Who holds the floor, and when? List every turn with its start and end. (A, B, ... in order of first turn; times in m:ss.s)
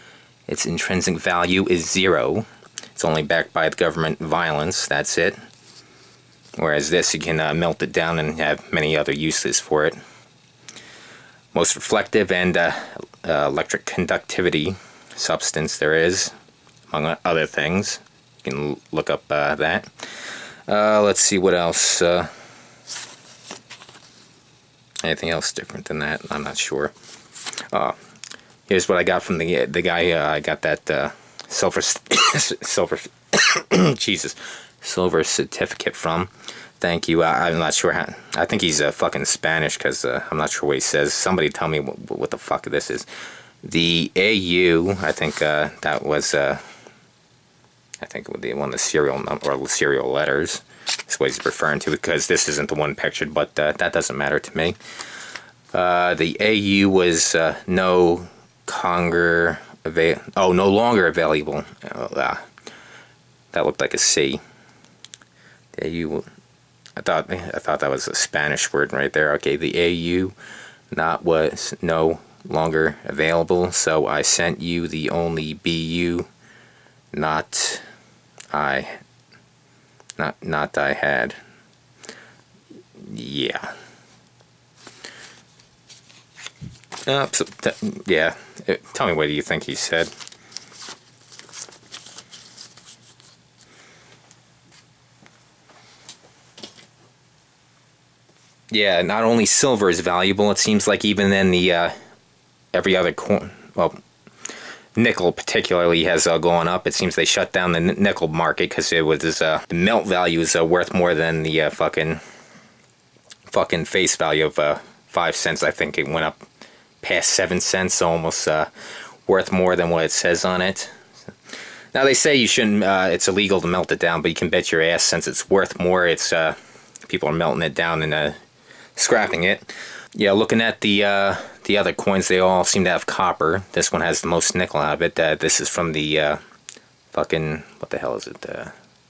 0:00.5-0:05.4 A
0:06.6-0:10.0 A
0:11.5-0:16.3 A
0:16.9-0:20.0 A
0:20.7-0:22.3 A
0:25.0-0:26.9 A
0:28.7-0:43.1 A
0:43.6-0:46.6 A
0:48.0-0:54.8 A
0:55.7-1:02.4 A
1:03.5-1:04.4 A
1:05.8-1:06.3 A
1:07.0-1:10.3 A
1:10.9-1:16.3 A
1:17.1-1:17.8 A
1:18.5-1:19.0 A
1:20.2-1:21.4 A
1:23.0-1:23.7 A
1:27.1-1:30.1 A
1:38.7-1:41.9 A
1:42.7-1:44.0 A
1:45.0-1:52.2 A
1:53.5-1:56.4 A
1:57.0-1:58.7 A
1:59.3-2:00.9 A
2:01.9-2:06.6 A
2:07.1-2:08.4 A
2:09.0-2:16.4 A
2:17.1-2:18.7 A